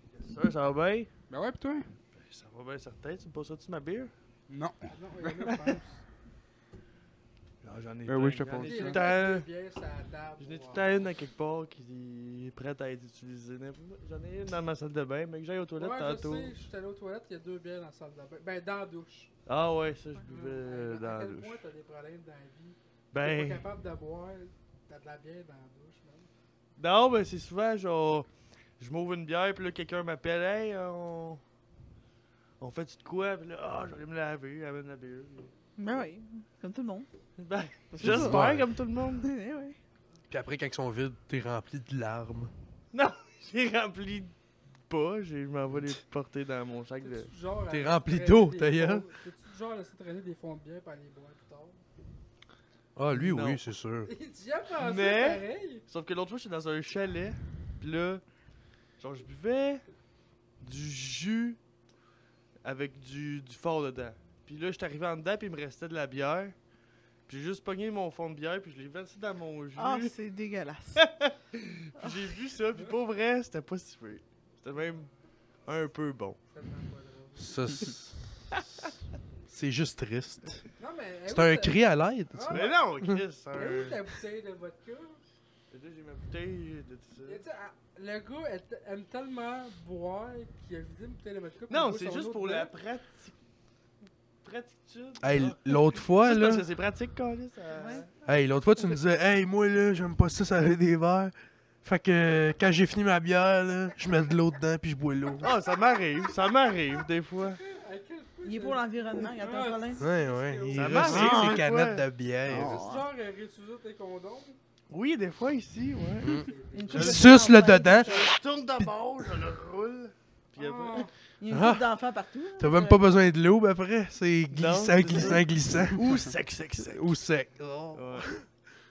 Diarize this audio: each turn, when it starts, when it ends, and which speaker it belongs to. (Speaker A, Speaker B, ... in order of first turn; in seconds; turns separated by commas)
Speaker A: 0.1-1.1, Speaker B: 1.3-2.0, Speaker A: 2.1-4.1, Speaker B: 4.5-5.8, Speaker C: 4.9-6.0, Speaker A: 7.6-9.5, Speaker B: 8.1-9.1, Speaker C: 8.6-10.9, Speaker A: 10.4-16.5, Speaker C: 15.8-19.3, Speaker A: 19.4-21.6, Speaker C: 20.3-26.3, Speaker A: 23.1-23.6, Speaker A: 26.8-31.4, Speaker A: 32.6-35.5, Speaker D: 35.8-37.1, Speaker A: 37.4-39.3, Speaker D: 37.9-38.5, Speaker E: 38.0-38.7, Speaker D: 39.2-39.8, Speaker E: 40.3-42.5, Speaker A: 42.9-44.3, Speaker A: 44.9-47.3, Speaker C: 47.0-51.8, Speaker E: 47.7-49.1, Speaker E: 53.0-54.1, Speaker A: 53.1-53.6, Speaker C: 54.0-55.8, Speaker A: 54.8-58.2, Speaker A: 59.0-59.8, Speaker A: 60.6-61.6, Speaker A: 62.6-66.5, Speaker A: 67.3-70.2, Speaker D: 69.8-71.1, Speaker A: 71.0-75.1, Speaker C: 74.7-75.1, Speaker A: 75.6-76.4, Speaker C: 76.5-77.8, Speaker E: 77.4-78.9, Speaker E: 79.5-80.7, Speaker C: 80.8-83.0, Speaker E: 81.3-83.1, Speaker A: 82.5-84.0, Speaker C: 83.5-85.2, Speaker A: 85.7-87.4, Speaker C: 87.2-92.7, Speaker A: 91.7-93.3, Speaker A: 94.4-98.0, Speaker E: 95.2-96.7, Speaker D: 97.7-98.1, Speaker E: 98.2-105.5, Speaker A: 105.4-107.6, Speaker C: 107.6-111.3, Speaker D: 108.4-110.0, Speaker E: 110.0-112.8, Speaker A: 110.7-112.6, Speaker D: 111.1-111.6, Speaker D: 112.5-113.1, Speaker C: 112.6-114.6, Speaker A: 114.9-116.4, Speaker E: 116.2-118.1, Speaker C: 116.3-117.8, Speaker D: 116.7-118.3, Speaker A: 118.0-121.0, Speaker C: 120.5-121.1, Speaker D: 121.4-123.0, Speaker E: 121.5-121.9, Speaker E: 122.6-126.0, Speaker A: 124.5-127.0, Speaker E: 126.9-128.5, Speaker A: 127.9-128.6